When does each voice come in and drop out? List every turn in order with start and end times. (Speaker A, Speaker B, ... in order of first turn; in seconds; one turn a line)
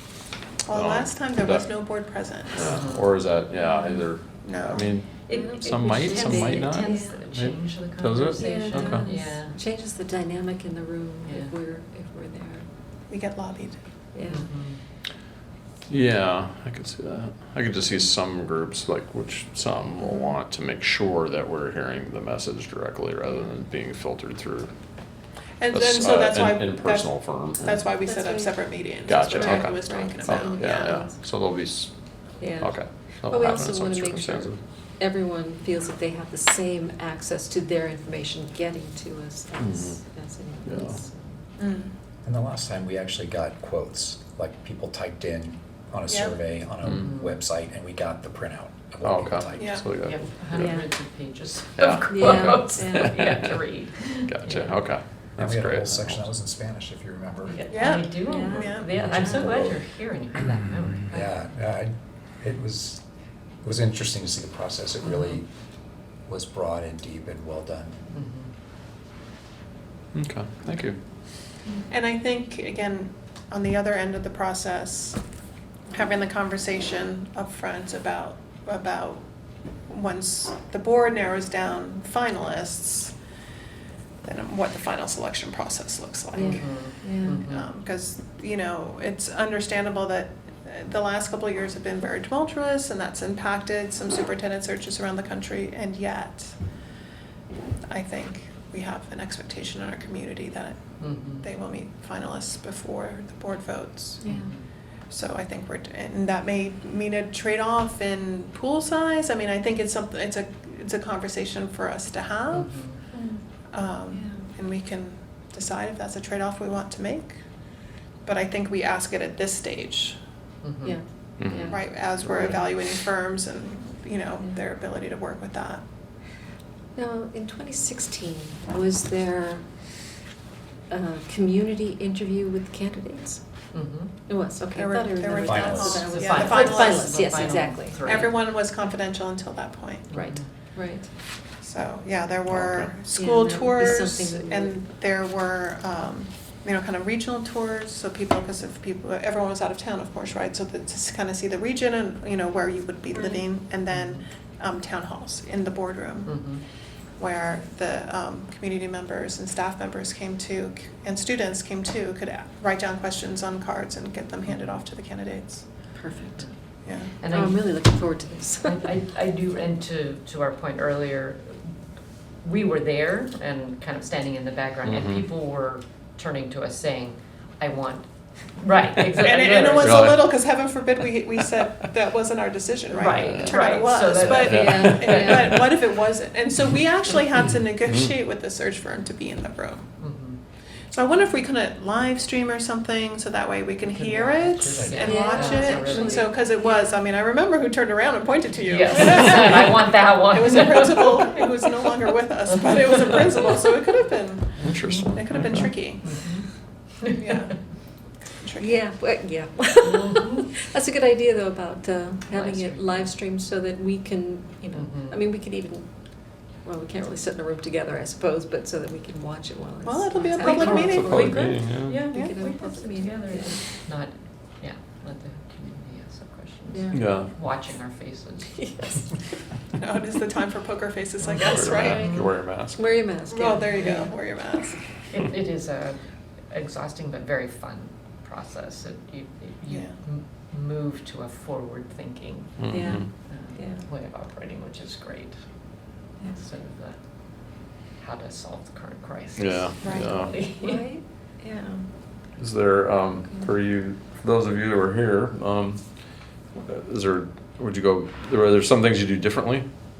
Speaker A: 0.7-2.8
Speaker B: 0.7-1.7
Speaker B: 2.5-9.1
Speaker C: 2.6-3.1
Speaker A: 4.4-4.9
Speaker C: 5.3-9.6
Speaker D: 5.3-7.2
Speaker D: 8.4-12.7
Speaker C: 11.3-11.5
Speaker A: 13.1-13.8
Speaker D: 14.1-14.5
Speaker C: 14.3-14.8
Speaker B: 15.9-24.7
Speaker A: 25.6-31.0
Speaker B: 25.7-27.8
Speaker D: 28.0-31.1
Speaker B: 29.1-31.9
Speaker D: 32.4-41.4
Speaker B: 32.6-34.6
Speaker B: 39.6-40.0
Speaker B: 40.7-41.0
Speaker A: 41.6-41.9
Speaker E: 42.2-49.8
Speaker A: 46.1-46.4
Speaker B: 46.8-47.1
Speaker C: 47.0-47.4
Speaker B: 49.0-50.7
Speaker A: 49.6-49.9
Speaker C: 50.0-54.7
Speaker D: 50.5-50.9
Speaker B: 51.8-53.6
Speaker D: 52.1-53.2
Speaker B: 54.3-56.2
Speaker E: 55.4-57.6
Speaker D: 57.5-59.5
Speaker C: 57.7-61.3
Speaker A: 57.7-58.9
Speaker E: 61.1-63.0
Speaker E: 63.6-65.5
Speaker C: 65.0-65.4
Speaker E: 66.3-68.0
Speaker C: 68.1-68.5
Speaker B: 70.1-71.0
Speaker A: 71.9-75.2
Speaker A: 75.9-79.2
Speaker A: 79.9-83.2
Speaker A: 84.2-86.9
Speaker D: 86.3-87.5
Speaker C: 86.4-87.7
Speaker A: 87.4-96.5
Speaker A: 97.9-100.8
Speaker C: 101.0-101.5
Speaker A: 101.4-104.3
Speaker D: 104.2-104.5
Speaker C: 104.3-104.6
Speaker A: 105.1-112.9
Speaker C: 112.5-113.0
Speaker D: 113.1-113.4
Speaker A: 113.7-117.4
Speaker D: 114.1-114.5
Speaker A: 118.2-120.2
Speaker C: 120.6-121.0
Speaker D: 120.8-122.6
Speaker B: 121.4-121.8
Speaker A: 121.7-125.8
Speaker D: 127.0-129.7
Speaker D: 130.9-133.4
Speaker C: 133.7-134.1
Speaker D: 134.3-138.1
Speaker A: 134.7-137.4
Speaker E: 135.4-136.2
Speaker C: 136.1-138.4
Speaker A: 138.1-140.3
Speaker C: 140.1-140.5
Speaker D: 140.1-141.1
Speaker A: 141.6-156.6
Speaker B: 142.5-142.9
Speaker D: 143.1-144.8
Speaker C: 153.9-154.2
Speaker C: 156.3-156.6
Speaker A: 157.2-165.7
Speaker C: 164.5-164.8
Speaker D: 165.9-166.5
Speaker A: 166.8-167.2
Speaker C: 167.2-167.7
Speaker D: 167.3-168.8
Speaker C: 168.7-171.6
Speaker C: 172.4-180.2
Speaker B: 174.8-175.2
Speaker A: 179.2-189.9
Speaker B: 179.8-180.3
Speaker C: 182.9-185.6
Speaker B: 183.2-183.5
Speaker B: 184.2-185.2
Speaker D: 184.5-185.7
Speaker B: 187.9-188.1
Speaker C: 190.0-190.4
Speaker A: 190.9-206.2
Speaker C: 193.9-196.4
Speaker E: 194.8-195.1
Speaker D: 195.0-196.2
Speaker C: 198.6-201.5
Speaker C: 202.9-203.2
Speaker B: 204.6-205.4
Speaker C: 204.9-206.4
Speaker A: 207.1-207.6
Speaker A: 208.4-208.8
Speaker D: 208.6-215.9
Speaker C: 209.8-210.5
Speaker C: 212.3-213.1
Speaker C: 214.8-215.2
Speaker D: 216.6-223.6
Speaker A: 219.9-221.6
Speaker C: 220.3-229.1
Speaker B: 220.7-222.1
Speaker D: 226.7-227.1
Speaker B: 226.9-227.3
Speaker D: 228.6-229.2
Speaker A: 229.8-232.1
Speaker C: 231.2-232.3
Speaker B: 231.4-232.8
Speaker D: 231.5-234.1
Speaker A: 233.3-234.8
Speaker C: 233.7-234.1
Speaker C: 235.1-236.0
Speaker C: 236.5-245.4
Speaker A: 239.7-240.0
Speaker B: 242.6-243.1
Speaker D: 242.7-243.9
Speaker D: 246.2-246.5
Speaker C: 246.3-247.0
Speaker C: 247.5-250.8
Speaker B: 249.4-250.3
Speaker A: 249.8-250.1
Speaker D: 250.4-251.8
Speaker B: 252.4-255.9
Speaker B: 256.6-259.7